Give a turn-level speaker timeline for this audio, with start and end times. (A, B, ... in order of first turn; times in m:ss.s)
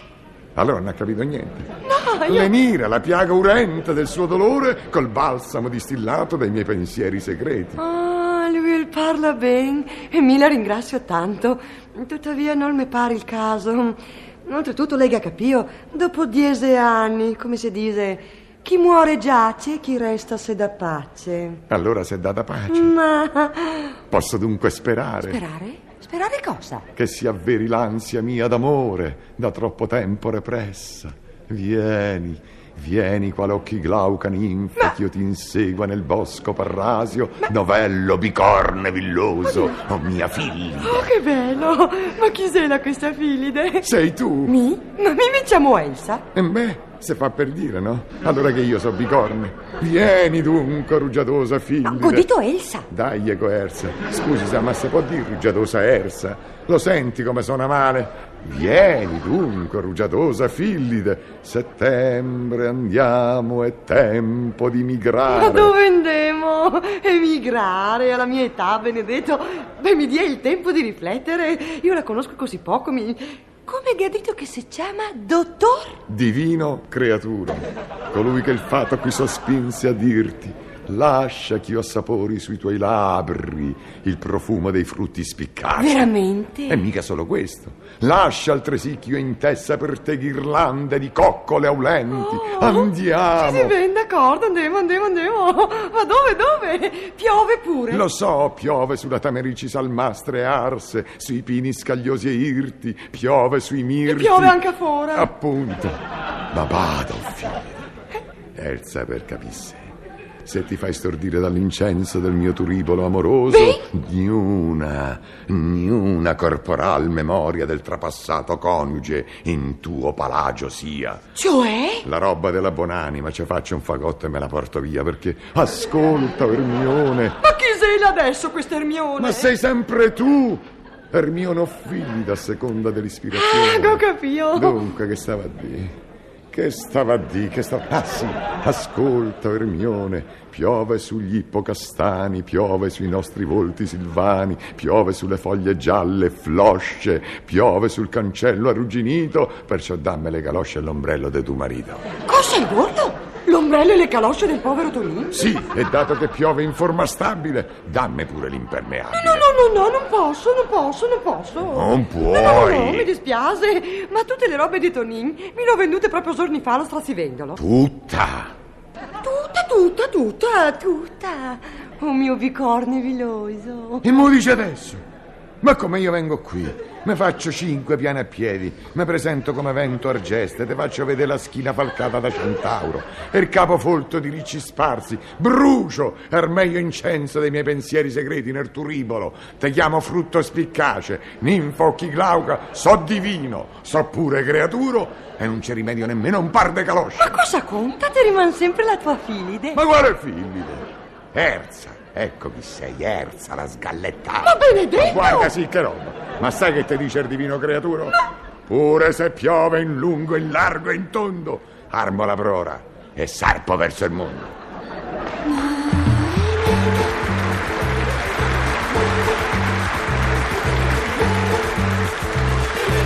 0:00.6-0:01.7 A
0:01.8-0:02.5 B
0:02.2-0:07.8 A
0:07.8-0:21.6 B
0:21.7-0:22.9 A
0:22.7-0:24.0 B
0:24.1-0:25.4 A
0:25.2-0:26.8 B
0:26.9-0:41.1 A
0:39.5-0:39.7 B
0:40.8-0:43.9 B
0:43.8-0:44.6 A
0:44.4-0:46.2 B
0:46.3-0:52.2 A
0:51.8-0:52.9 B
0:52.9-1:05.7 A
1:05.3-1:16.0 B
1:16.1-1:26.1 A
1:25.8-1:26.8 B
1:26.7-1:33.8 A
1:32.1-1:38.0 B
1:37.9-1:44.6 A
1:44.0-1:45.3 B
1:45.1-1:46.0 A
1:46.5-1:47.7 A
1:48.5-1:49.9 A
1:50.4-2:01.2 A
1:53.5-1:53.8 B
2:01.4-2:02.0 B
2:02.0-2:07.4 A
2:07.4-2:09.5 B
2:09.2-2:16.0 A
2:13.3-2:14.9 B
2:16.5-2:32.1 A
2:32.2-2:35.4 B
2:35.3-2:39.5 A
2:39.1-2:47.6 B
2:41.6-2:43.1 A
2:47.6-2:48.5 A
2:49.2-2:54.0 B
2:54.0-2:55.0 A
2:55.6-3:17.3 A
3:17.2-3:19.8 B
3:19.7-3:34.5 A
3:24.4-3:25.5 B